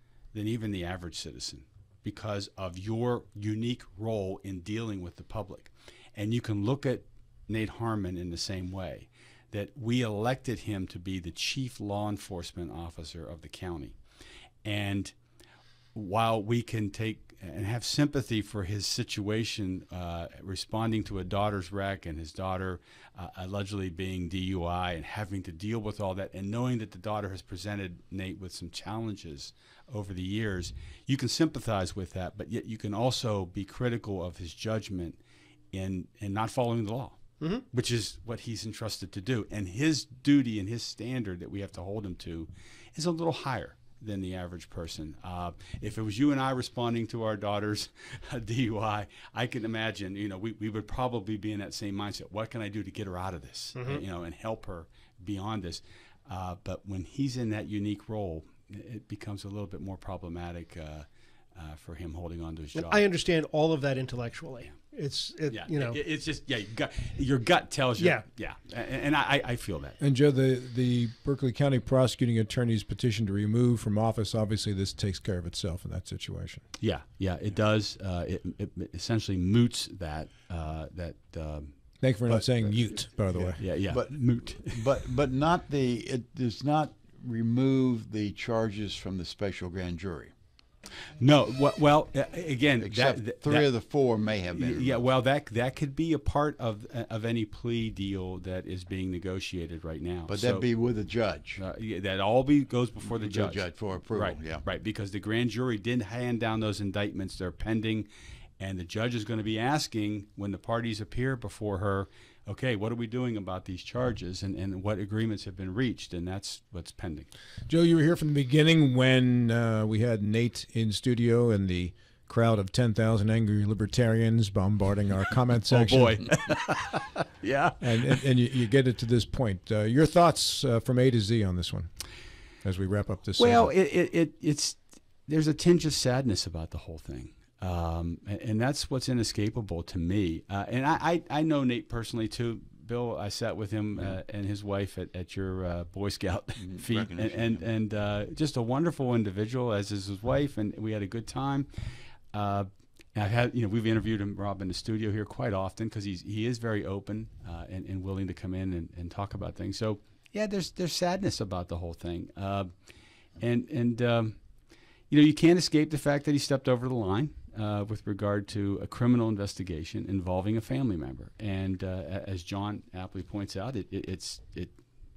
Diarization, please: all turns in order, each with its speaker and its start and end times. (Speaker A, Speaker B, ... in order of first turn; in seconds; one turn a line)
Speaker A: 0.3-14.0
Speaker A: 14.6-15.1
Speaker A: 15.9-35.2
Speaker A: 35.7-37.2
Speaker A: 37.7-63.1
Speaker B: 53.8-54.0
Speaker B: 62.8-66.0
Speaker A: 65.5-70.0
Speaker B: 68.0-68.2
Speaker C: 70.0-76.6
Speaker A: 76.8-81.7
Speaker C: 82.0-83.6
Speaker D: 83.3-90.3
Speaker A: 83.6-84.8
Speaker A: 91.2-93.7
Speaker D: 92.8-95.0
Speaker A: 94.6-100.7
Speaker D: 100.3-101.6
Speaker A: 101.6-108.1
Speaker D: 103.1-104.6
Speaker A: 108.6-117.3
Speaker C: 117.7-126.3
Speaker A: 125.7-128.2
Speaker C: 127.8-131.9
Speaker C: 132.6-133.7
Speaker A: 133.4-151.7
Speaker D: 146.6-147.7
Speaker A: 152.3-162.7
Speaker A: 163.4-164.4
Speaker A: 165.1-174.7